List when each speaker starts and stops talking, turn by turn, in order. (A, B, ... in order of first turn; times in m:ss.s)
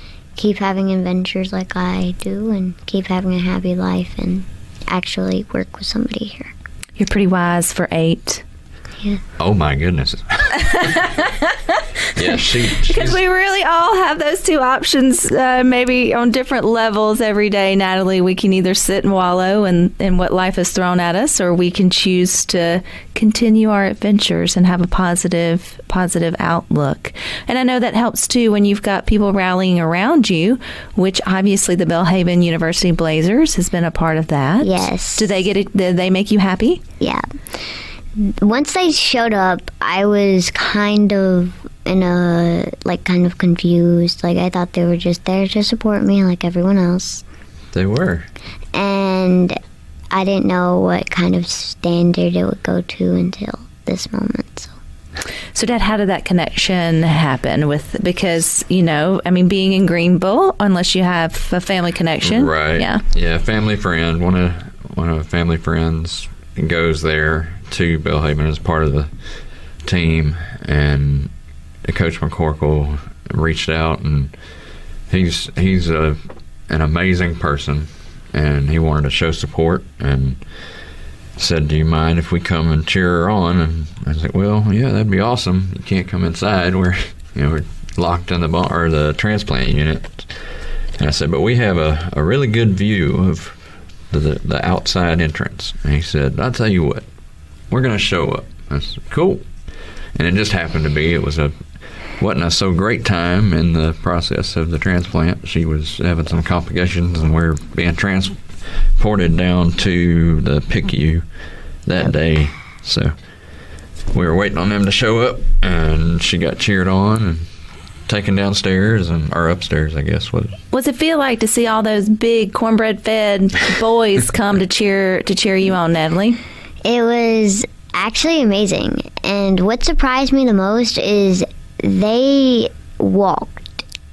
0:00.4-0:06.5 A
0:07.0-0:08.4 B
0:09.4-0:11.0 C
0:10.7-0:36.8 B
0:12.1-0:13.2 C
0:34.6-0:35.3 A
0:38.2-0:47.2 A
0:47.7-0:48.3 C
0:48.7-0:49.6 A
0:50.1-0:54.7 A
0:55.5-1:03.0 B
1:02.2-1:11.3 C
1:11.8-1:14.4 C
1:15.1-1:20.5 C
1:21.4-1:37.1 C
1:37.7-1:39.5 C
1:40.1-1:51.2 C
1:51.8-1:53.1 C
1:54.1-1:57.5 C
1:58.1-2:00.6 C
2:00.7-2:06.4 B
2:06.8-2:13.8 A